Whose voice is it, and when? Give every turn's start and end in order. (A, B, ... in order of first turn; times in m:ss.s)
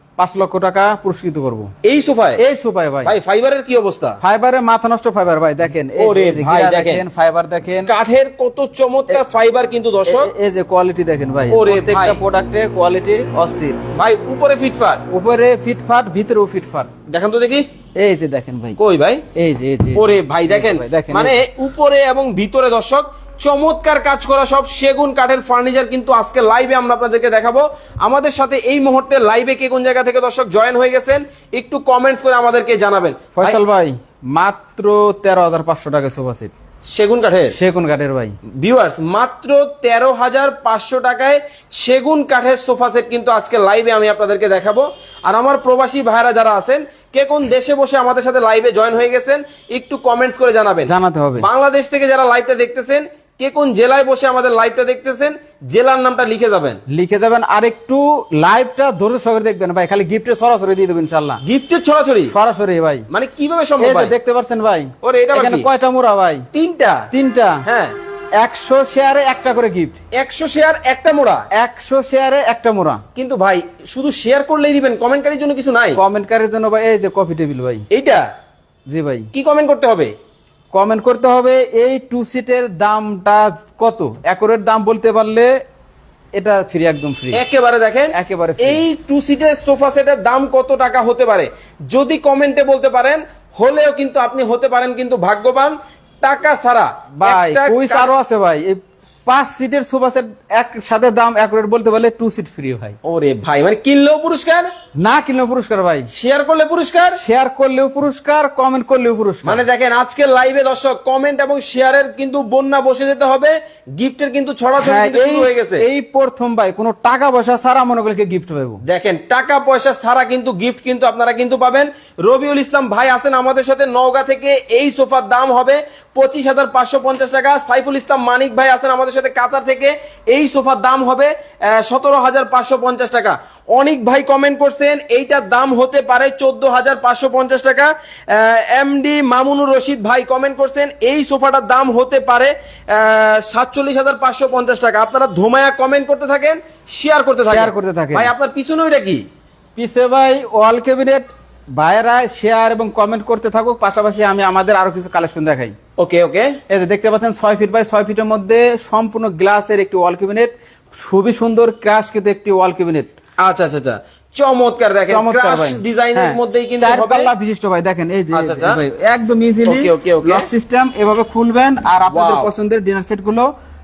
0:00.2-0:01.7 A
0:01.8-0:02.4 B
0:02.4-0:03.1 A
0:03.0-0:04.2 B
0:04.2-0:07.9 A
0:06.0-0:07.0 B
0:07.8-0:10.3 B
0:10.1-0:13.8 A
0:11.5-0:12.2 B
0:14.0-0:15.0 B
0:15.1-0:16.9 A
0:17.1-0:17.6 B
0:18.0-0:18.8 A
0:18.8-0:19.2 B
0:19.4-0:21.4 A
0:20.0-0:33.6 B
0:33.4-0:36.5 A
0:36.8-0:37.6 B
0:37.5-0:38.4 A
0:38.6-0:56.8 B
0:50.9-0:51.5 A
0:56.9-1:01.4 A
1:01.4-1:02.4 B
1:02.3-1:03.1 A
1:03.1-1:04.1 B
1:03.8-1:06.5 A
1:05.0-1:05.7 B
1:06.5-1:07.1 B
1:07.1-1:07.7 A
1:07.6-1:08.0 B
1:08.4-1:10.0 A
1:10.1-1:11.5 B
1:11.5-1:13.0 A
1:13.2-1:16.0 B
1:16.0-1:17.8 A
1:17.9-1:18.3 B
1:18.9-1:19.3 A
1:19.3-1:20.1 B
1:20.7-1:25.5 A
1:26.4-1:27.4 A
1:27.3-1:38.1 B
1:28.1-1:28.8 A
1:37.2-1:43.0 A
1:43.0-1:44.7 B
1:45.0-1:46.1 A
1:46.1-1:47.2 B
1:47.1-1:49.6 A
1:49.4-1:55.8 B
1:54.8-1:58.8 A
1:58.8-2:29.2 B
2:27.4-2:28.3 A
2:29.8-2:35.8 A
2:36.0-2:36.6 B
2:36.7-2:43.1 A
2:43.4-2:47.3 B
2:45.1-2:53.5 A
2:48.3-2:48.8 B
2:49.6-2:50.5 B
2:52.1-2:52.5 B